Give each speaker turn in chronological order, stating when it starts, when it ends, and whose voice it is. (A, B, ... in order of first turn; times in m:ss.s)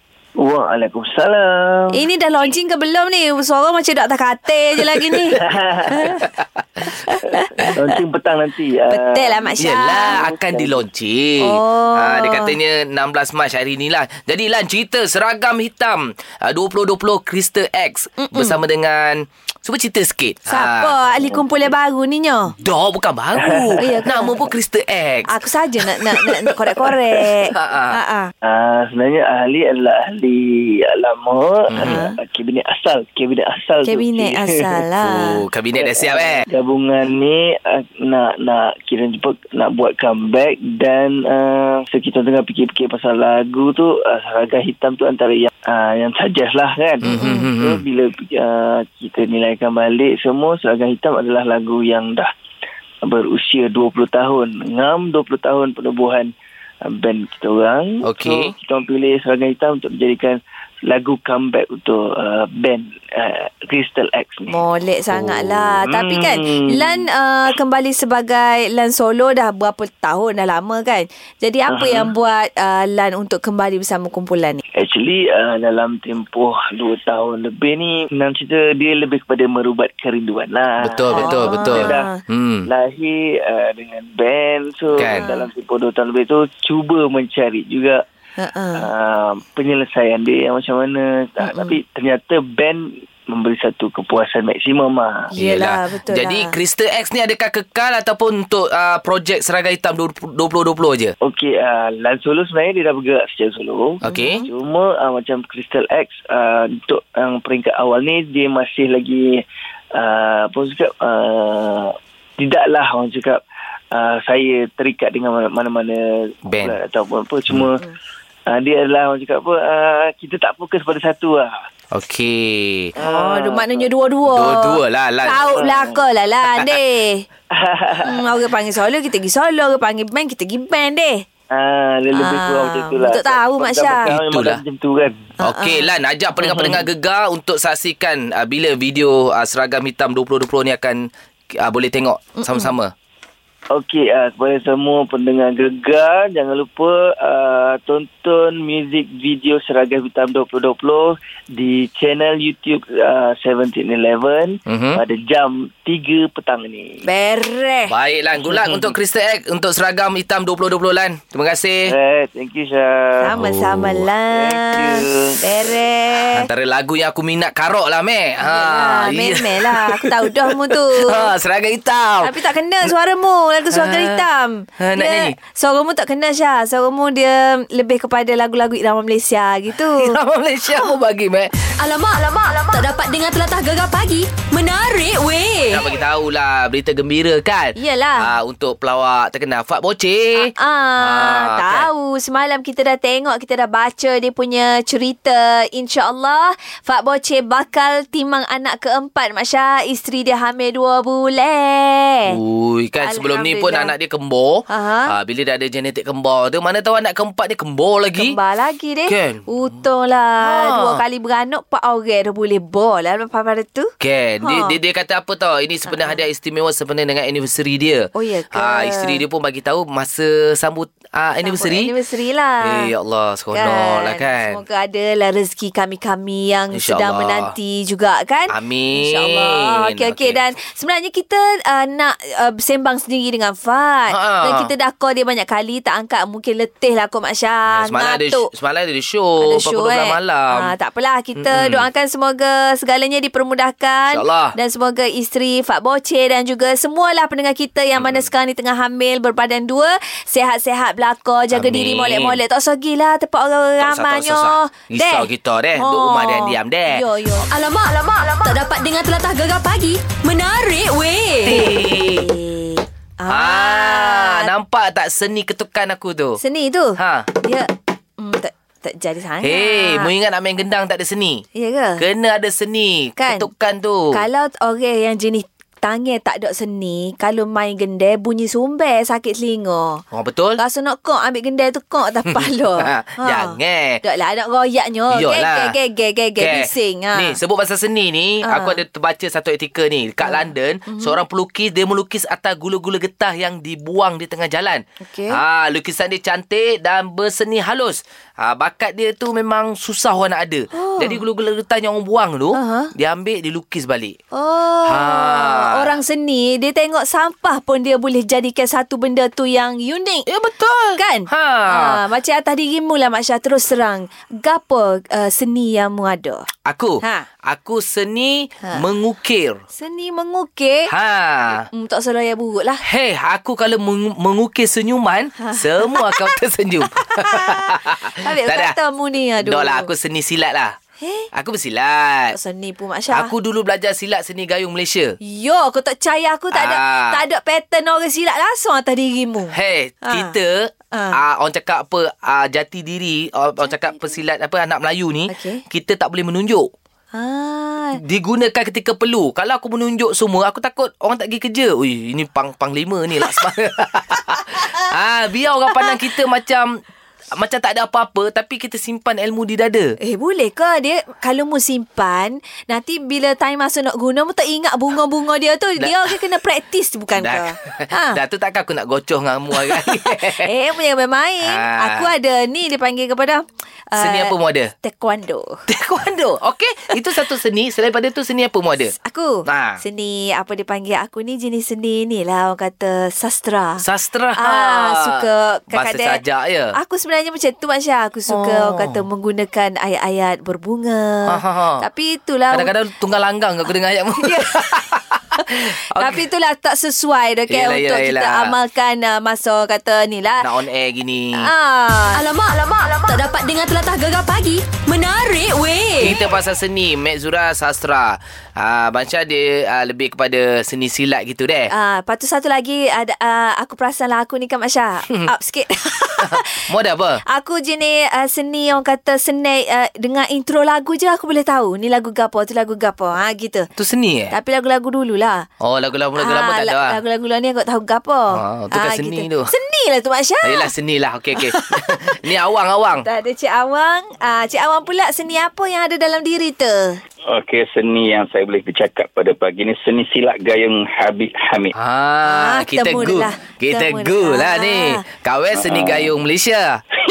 0:00.4-0:01.9 A
0:01.9-0:05.4 B
0:04.9-0:05.2 C
0:05.4-0:06.1 A
0:05.9-0:06.2 B
0:06.2-0:06.9 C
0:06.8-0:07.7 B
0:07.6-0:10.8 A
0:08.9-0:10.2 B
0:09.6-0:21.0 C
0:11.4-0:12.5 B
0:18.2-0:18.6 B
0:20.5-0:22.5 B
0:22.6-0:25.3 C
0:23.4-0:24.4 A
0:23.8-0:24.4 B
0:25.3-0:28.3 B
0:26.0-0:26.6 C
0:27.5-0:28.0 C
0:28.4-0:34.8 A
0:31.7-0:32.0 C
0:31.8-0:32.2 B
0:33.8-0:35.4 B
0:35.1-0:36.4 C
0:35.8-0:52.3 A
0:47.0-0:47.8 C
0:47.1-0:47.5 B
0:53.1-0:56.3 A
0:56.9-1:04.6 A
0:58.0-0:58.5 C
1:04.5-1:14.6 B
1:05.4-1:05.8 C
1:05.9-1:07.0 A
1:11.7-1:12.1 A
1:14.8-1:22.1 A
1:20.8-1:22.7 C
1:21.1-1:22.2 B
1:22.7-1:28.0 A
1:25.0-1:25.2 C
1:25.0-1:25.5 B
1:28.4-1:28.9 B
1:28.8-1:35.3 A
1:31.4-1:31.8 B
1:35.4-1:36.6 B
1:35.4-1:41.1 C
1:41.2-1:49.4 A
1:44.0-1:44.4 C
1:44.1-1:44.4 B
1:50.0-1:53.4 A
1:53.9-1:57.8 A
1:56.5-1:56.8 C
1:58.5-2:01.5 A
2:01.9-2:02.9 C
2:03.0-2:03.9 A
2:03.0-2:07.2 B
2:04.3-2:05.4 C
2:05.4-2:06.0 A
2:07.6-2:08.2 A
2:08.0-2:11.2 B
2:11.5-2:15.3 A
2:12.1-2:14.1 B
2:14.0-2:14.6 C
2:15.4-2:15.9 B
2:15.4-2:21.0 C
2:16.4-2:16.9 A
2:21.6-2:22.9 C
2:22.4-2:22.8 B
2:23.7-2:37.0 A
2:34.7-2:35.0 C
2:37.0-2:37.9 B
2:37.9-2:42.0 C
2:38.3-2:39.0 A
2:41.9-2:43.4 A
2:43.2-2:46.5 B
2:43.4-2:44.0 C
2:44.3-2:45.4 A
2:46.3-2:52.3 C
2:48.4-2:51.2 B
2:52.2-3:00.2 B
2:53.7-2:54.2 C
2:54.8-2:55.4 C
2:59.7-3:01.7 C
3:01.8-3:05.8 D
3:05.7-3:11.9 C
3:07.8-3:08.3 B
3:10.5-3:22.4 B
3:22.3-3:28.4 C
3:23.0-3:24.0 B
3:24.7-3:25.1 B
3:28.2-3:33.9 B
3:29.1-3:29.4 C
3:30.4-3:31.0 C
3:34.0-3:41.9 C
3:34.4-3:34.8 B
3:35.9-3:36.2 B
3:38.2-3:39.2 B
3:41.4-3:42.9 B
3:42.6-3:44.6 C
3:43.5-3:58.5 B
3:46.7-3:47.5 C
3:48.5-3:50.4 C
3:54.1-3:54.7 C
3:57.7-4:00.7 C
3:59.4-4:17.5 B
4:01.4-4:01.8 C
4:04.0-4:04.6 C
4:08.0-4:08.3 C
4:11.5-4:12.4 C
4:13.8-4:17.0 C
4:17.5-4:21.6 D
4:21.5-4:22.3 C
4:21.5-4:24.5 B
4:23.3-4:26.4 C
4:26.4-4:30.1 B
4:27.0-4:27.3 C
4:29.4-4:31.4 C
4:31.6-4:32.0 B
4:32.0-4:34.2 C
4:33.2-4:33.5 B
4:34.1-4:40.0 B
4:40.1-4:40.6 C
4:40.6-4:47.4 B
4:42.3-4:44.0 C
4:45.1-4:45.8 C
4:46.4-5:04.2 C
4:48.5-4:48.8 B
4:50.2-4:51.2 B
4:55.0-4:55.4 B
5:00.7-5:01.2 B
5:02.6-5:02.9 B
5:04.3-5:10.3 B
5:04.9-5:06.0 C
5:10.3-5:12.0 C
5:11.0-5:16.5 B
5:16.7-5:19.6 C
5:19.7-5:20.9 B
5:20.9-5:21.7 C
5:21.7-5:22.8 B
5:22.8-5:28.7 C
5:25.4-5:26.4 B
5:26.9-5:29.9 B
5:29.4-5:30.8 C
5:31.0-5:31.3 B
5:31.3-5:32.4 C
5:32.3-5:33.3 B
5:33.1-5:35.2 C
5:35.2-5:39.5 B
5:36.5-5:37.2 C
5:39.5-5:46.7 C
5:40.1-5:40.3 B
5:40.9-5:41.2 B
5:43.6-5:44.2 B
5:45.3-5:45.6 B
5:47.1-5:48.0 B
5:48.0-5:56.8 C
5:57.3-6:00.0 C
6:00.0-6:08.2 B
6:05.8-6:06.2 C
6:07.2-6:10.5 C
6:10.3-6:15.6 B
6:11.4-6:12.1 C
6:14.0-6:14.7 C
6:15.7-6:18.9 C
6:19.0-6:23.8 B
6:19.5-6:19.8 C
6:23.8-6:26.8 C
6:24.4-6:26.2 B
6:26.8-6:32.7 B
6:28.3-6:29.0 C
6:31.3-6:31.8 C
6:32.5-6:36.2 C
6:34.2-6:34.5 B
6:36.0-6:40.5 B
6:37.5-6:38.6 C
6:40.4-6:41.5 C
6:41.4-6:42.2 B
6:42.1-6:46.2 D
6:46.0-6:51.7 C
6:51.7-6:56.6 B
6:56.2-6:57.2 C
6:57.3-7:03.7 B
7:03.8-7:04.3 C
7:04.3-7:05.5 B
7:05.6-7:07.0 C
7:06.2-7:10.7 B
7:08.3-7:09.5 C
7:10.4-7:13.1 C
7:13.0-7:17.0 B
7:17.3-7:21.7 E
7:21.8-7:26.8 C
7:22.2-7:25.0 B
7:25.5-7:26.1 E